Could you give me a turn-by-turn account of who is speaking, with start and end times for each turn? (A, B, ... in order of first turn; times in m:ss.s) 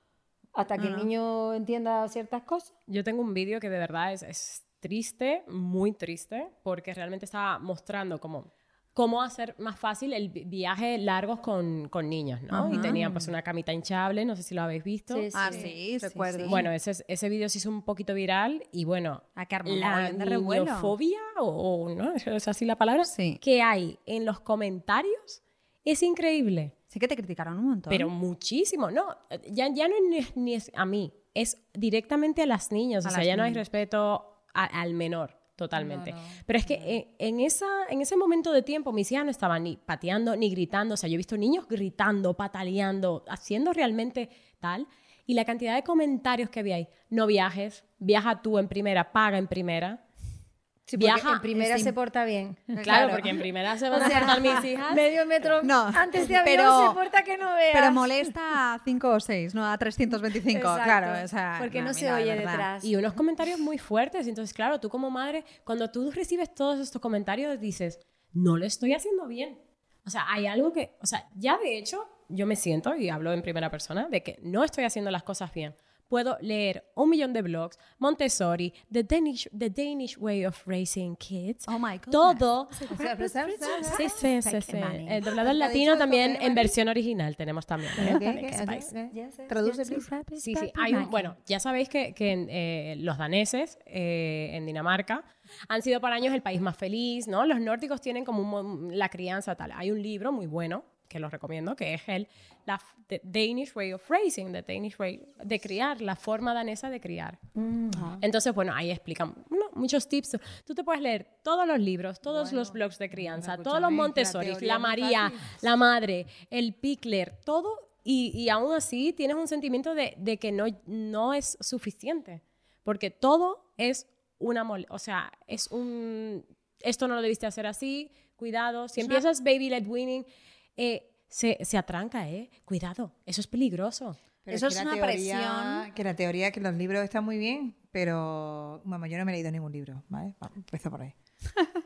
0:00.6-0:02.7 A
0:00.8-0:01.1 B
0:02.9-0:15.3 C
0:12.5-0:13.0 B
0:12.7-0:13.3 A
0:15.1-0:16.6 A
0:15.3-0:16.7 B
0:16.4-0:26.7 C
0:19.4-0:21.0 B
0:23.0-0:23.4 B
0:26.9-0:28.1 B
0:27.9-0:50.0 C
0:33.0-0:33.6 B
0:35.8-0:36.4 A
0:50.9-0:53.1 A
0:51.0-0:51.5 C
0:51.5-0:52.0 B
0:52.7-0:53.4 B
0:52.8-0:55.1 C
0:53.9-0:58.3 A
0:54.0-0:54.7 B
0:55.6-0:57.0 B
0:57.7-1:02.7 B
1:00.4-1:02.9 A
1:02.8-1:22.9 C
1:21.7-1:24.8 B
1:22.8-1:25.2 A
1:23.8-1:28.9 C
1:25.4-1:26.8 D
1:28.0-1:30.1 D
1:29.1-1:31.3 A
1:30.4-1:47.4 C
1:47.6-1:48.0 A
1:48.0-1:48.2 D
1:48.2-2:10.3 C
1:52.4-1:52.7 A
1:53.3-1:55.6 D
2:09.0-2:09.2 B
2:10.8-2:14.2 C
2:14.4-2:21.2 D
2:14.5-2:15.9 B